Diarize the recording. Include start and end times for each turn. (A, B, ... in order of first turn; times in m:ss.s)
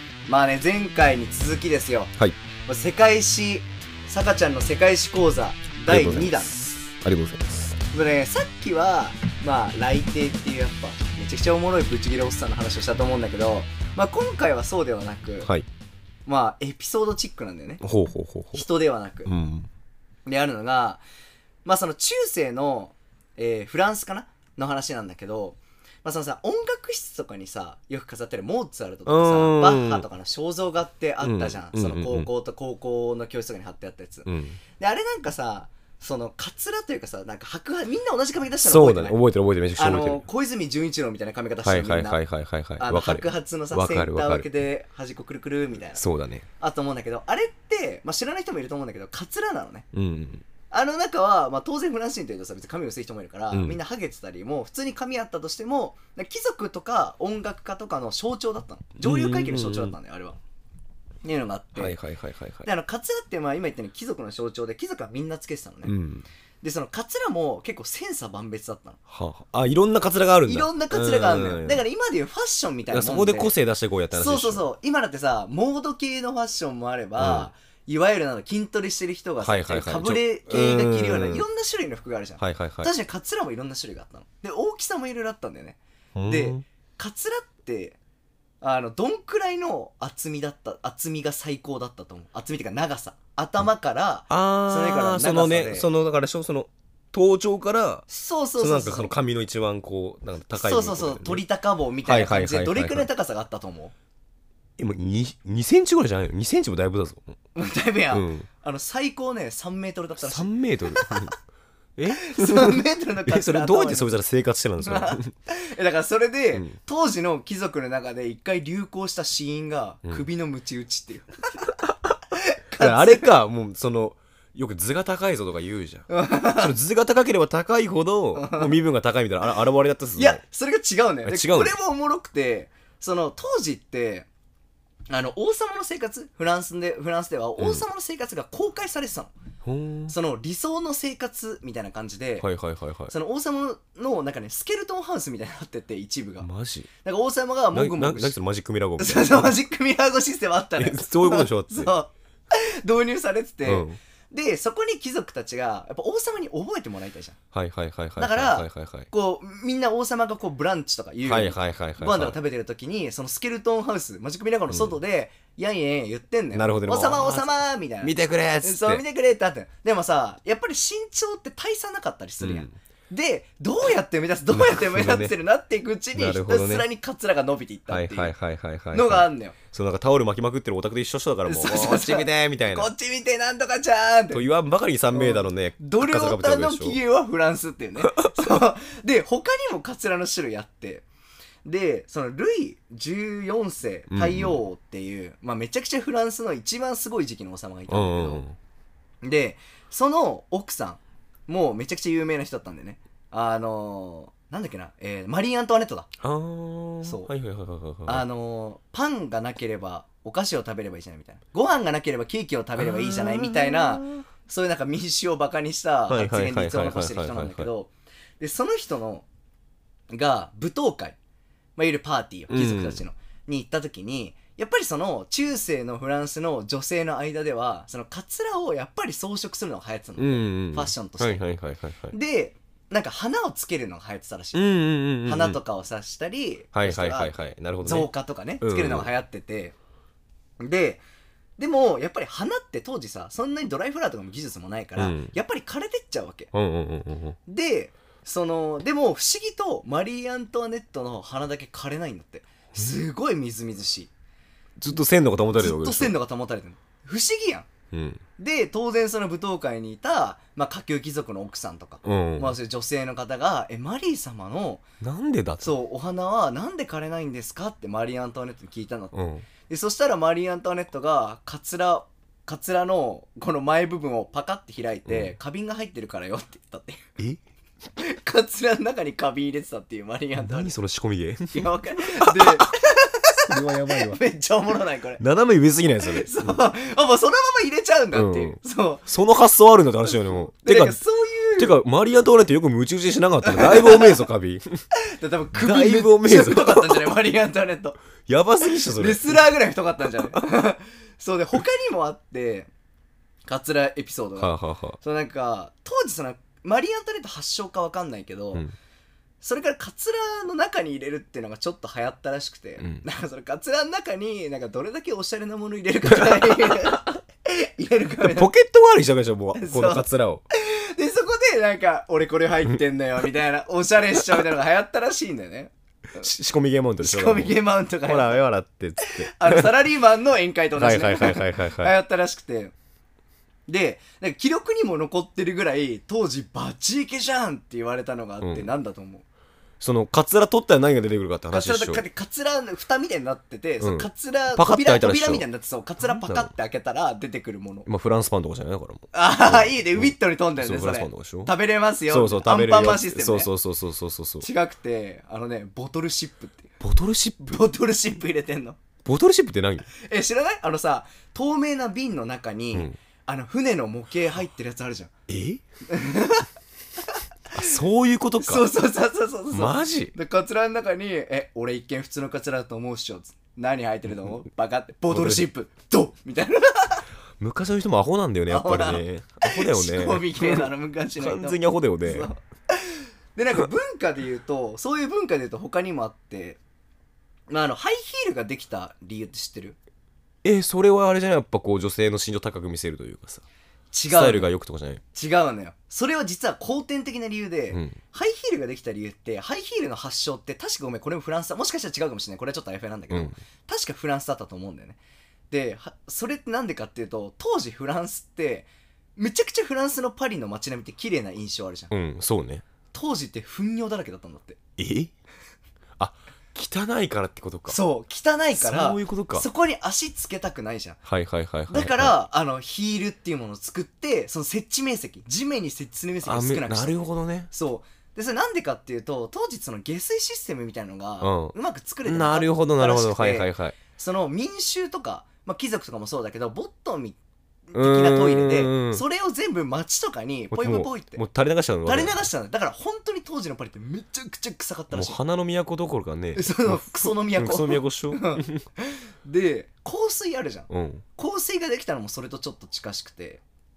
0:00.3-0:02.1 A
0:02.7-0:06.6 A
0:05.9-0:07.8 B
0:07.9-0:15.5 A
0:16.3-0:17.8 A
0:17.8-0:18.7 B
0:18.5-0:19.3 A
0:19.3-0:19.7 B
0:20.3-0:21.0 A
0:21.6-0:39.2 A
0:29.1-0:30.0 B
0:31.2-0:32.3 B
0:34.3-0:34.6 B
0:38.6-0:40.2 B
0:39.8-0:42.2 A
0:41.6-0:44.5 B
0:42.8-0:46.0 A
0:46.0-0:46.5 B
0:46.6-0:49.9 A
0:49.9-0:50.5 B
0:50.7-1:00.4 A
0:53.5-0:53.8 B
0:59.0-1:00.0 B
1:01.2-1:02.0 A
1:01.8-1:02.7 B
1:02.6-1:05.9 A
1:05.8-1:06.3 B
1:06.6-1:09.0 A
1:09.1-1:11.8 B
1:10.5-1:13.5 A
1:12.9-1:14.6 B
1:14.1-1:28.0 A
1:17.2-1:17.5 B
1:19.4-1:21.4 B
1:22.4-1:22.9 B
1:26.2-1:26.6 B
1:28.6-1:35.9 A
1:34.3-1:38.1 B
1:38.1-1:39.1 A
1:38.6-1:41.4 B
1:40.5-1:43.9 A
1:42.0-1:43.1 B
1:44.8-1:47.4 B
1:47.6-1:51.2 A
1:48.1-1:48.5 B
1:50.2-1:51.4 B
1:52.0-1:55.3 B
1:52.1-1:54.1 A
1:54.8-2:01.3 A
2:02.4-2:03.3 A
2:02.8-2:10.4 B
2:06.1-2:06.7 A
2:08.4-2:08.8 A
2:10.2-2:14.3 A
2:11.2-2:11.8 B
2:15.1-2:19.3 A
2:17.6-2:17.8 B
2:19.6-2:20.1 B
2:20.1-2:22.5 A
2:22.4-2:23.1 B
2:23.1-2:26.5 A
2:26.4-2:26.9 B
2:27.0-2:28.4 A
2:27.7-2:29.6 B
2:29.0-2:37.4 A
2:30.8-2:31.9 B
2:33.6-2:34.0 B
2:37.5-2:39.1 B
2:38.2-2:58.4 A
2:41.2-2:42.4 B
2:44.7-2:45.0 B
2:46.5-2:49.0 B
2:52.4-2:52.8 B
2:54.5-2:55.3 B
2:56.2-2:56.8 B
2:57.9-3:02.9 B
2:58.9-2:59.6 A
3:01.5-3:04.4 A
3:04.3-3:07.0 B
3:05.1-3:11.0 A
3:08.0-3:08.5 B
3:11.6-3:18.4 A
3:14.1-3:14.6 B
3:17.9-3:18.6 B
3:19.2-3:26.1 A
3:26.2-3:28.2 B
3:27.0-3:27.3 A
3:28.1-3:39.3 A
3:32.8-3:34.0 B
3:36.1-3:37.7 B
3:40.1-3:41.2 A
3:41.8-3:51.4 A
3:42.5-3:43.0 B
3:50.2-3:52.1 B
3:52.1-3:54.6 A
3:54.5-3:55.6 B
3:55.2-3:59.8 A
3:56.7-3:58.1 B
3:58.6-3:59.1 B
4:00.6-4:01.0 A
4:01.6-4:06.5 A
4:05.0-4:05.3 B
4:06.5-4:07.4 B
4:07.5-4:14.1 A
4:14.8-4:16.1 B
4:15.6-4:17.7 A
4:17.9-4:18.2 B
4:18.4-4:24.8 A
4:22.0-4:22.6 B
4:25.0-4:25.7 B
4:25.6-4:29.1 A
4:29.1-4:29.5 B
4:29.7-4:37.1 A
4:35.1-4:35.3 B
4:38.0-4:40.7 A
4:40.4-4:42.7 B
4:41.5-4:45.2 A
4:43.5-4:44.2 B
4:45.2-4:46.6 B
4:46.0-4:49.1 A
4:48.1-4:51.0 B
4:50.0-4:51.8 A
4:51.6-4:54.8 B
4:53.4-4:54.2 A
4:55.0-4:58.0 A
4:55.6-4:57.1 B
4:58.2-4:59.4 B
4:58.8-5:02.7 A
5:03.5-5:08.6 A
5:04.4-5:05.0 B
5:09.4-5:18.5 A
5:12.8-5:13.0 B
5:16.1-5:17.0 B
5:18.2-5:20.4 B
5:19.6-5:25.7 A
5:26.2-5:29.7 B
5:27.0-5:28.4 A
5:29.0-5:32.7 A
5:30.8-5:31.9 B
5:33.7-5:39.2 A
5:38.4-5:38.7 B
5:39.8-5:42.0 B
5:41.5-5:47.9 A
5:43.8-5:45.5 B
5:46.0-5:46.5 B
5:47.9-5:51.5 B
5:49.1-5:53.5 A
5:52.1-5:54.5 B
5:54.4-5:56.7 A
5:56.8-5:57.6 B
5:57.5-5:58.8 A
5:59.0-5:59.9 B
5:59.9-6:05.1 A
6:05.3-6:05.6 B
6:05.9-6:06.5 A
6:07.5-6:08.7 B
6:08.4-6:17.0 A
6:09.5-6:10.2 B
6:15.1-6:15.5 B
6:17.4-6:22.3 B
6:18.5-6:26.6 A
6:27.5-6:29.8 A
6:30.4-6:33.4 B
6:33.9-6:34.5 A
6:34.1-6:35.0 B
6:35.1-6:45.0 A
6:37.7-6:38.0 B
6:43.1-6:43.4 B
6:45.5-6:51.9 A
6:51.9-6:52.6 B
6:52.9-6:54.6 A
6:54.8-6:55.1 B
6:56.0-6:57.8 B
6:57.7-7:01.0 A
6:58.5-6:59.5 B
7:01.1-7:02.2 B
7:01.7-7:17.2 A
7:06.2-7:07.5 B
7:11.2-7:13.8 B
7:17.7-7:21.2 A
7:17.7-7:19.0 B
7:20.5-7:22.2 B
7:21.8-7:25.2 A
7:24.9-7:28.6 B
7:26.4-7:33.4 A
7:30.7-7:31.0 B